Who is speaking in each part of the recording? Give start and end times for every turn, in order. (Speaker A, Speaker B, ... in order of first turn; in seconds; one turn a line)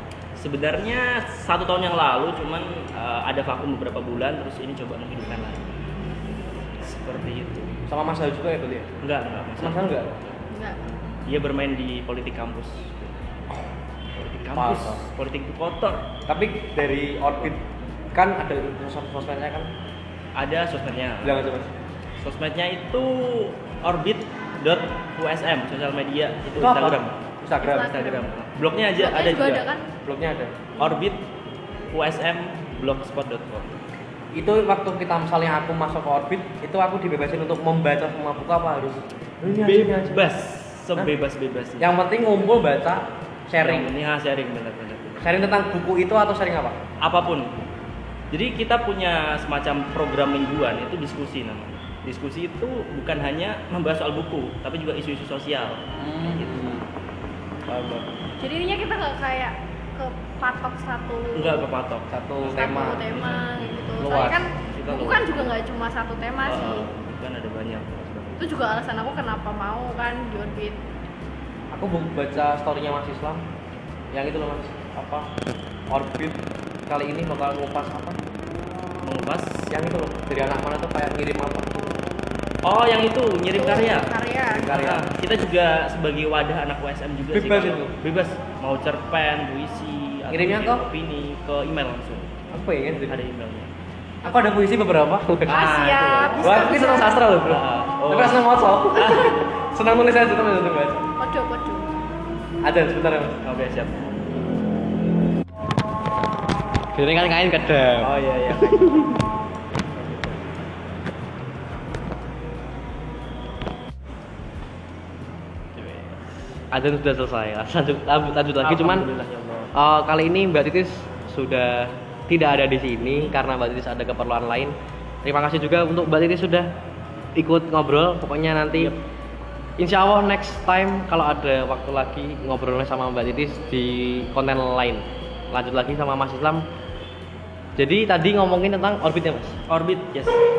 Speaker A: 0.3-5.7
Speaker A: 6.8-7.8
Speaker B: 7.9-8.9
Speaker A: 9.0-10.3
Speaker B: 9.6-10.1
Speaker C: 10.5-10.8
Speaker A: 11.2-13.3
Speaker A: 14.1-16.0
Speaker B: 14.5-15.0
Speaker B: 16.3-19.7
Speaker A: 20.3-21.4
Speaker B: 21.2-21.7
Speaker A: 22.2-29.6
Speaker B: 26.6-27.9
Speaker C: 27.6-28.3
Speaker C: 29.0-29.8
Speaker B: 30.0-30.6
Speaker A: 30.8-31.2
Speaker A: 31.9-33.8
Speaker B: 34.3-40.3
Speaker A: 39.5-41.9
Speaker B: 41.8-43.9
Speaker A: 43.6-45.5
Speaker B: 45.2-46.8
Speaker A: 47.0-47.6
Speaker A: 48.3-56.8
Speaker B: 56.0-56.9
Speaker A: 57.7-58.1
Speaker C: 58.4-61.6
Speaker A: 61.3-63.4
Speaker B: 62.1-63.1
Speaker C: 62.4-66.9
Speaker B: 64.0-64.4
Speaker A: 64.7-65.4
Speaker A: 66.5-68.4
Speaker C: 68.4-70.8
Speaker B: 71.7-73.5
Speaker B: 74.1-75.3
Speaker B: 75.9-78.2
Speaker A: 79.0-79.7
Speaker B: 79.7-82.0
Speaker A: 82.6-92.3
Speaker C: 83.5-84.7
Speaker B: 84.5-85.1
Speaker B: 87.3-87.9
Speaker B: 90.3-90.8
Speaker B: 92.5-93.2
Speaker A: 93.1-93.7
Speaker B: 94.2-95.7
Speaker A: 95.5-96.8
Speaker C: 95.5-97.2
Speaker B: 96.4-101.1
Speaker A: 97.4-99.4
Speaker C: 101.2-101.9
Speaker B: 102.6-103.4
Speaker A: 103.4-104.1
Speaker B: 106.9-109.2
Speaker A: 108.0-109.2
Speaker A: 109.9-110.6
Speaker A: 115.8-116.2
Speaker B: 116.7-119.1
Speaker A: 118.6-119.7
Speaker B: 119.7-126.7
Speaker B: 127.3-128.9
Speaker B: 129.8-136.6
Speaker B: 137.8-139.6
Speaker A: 139.7-140.4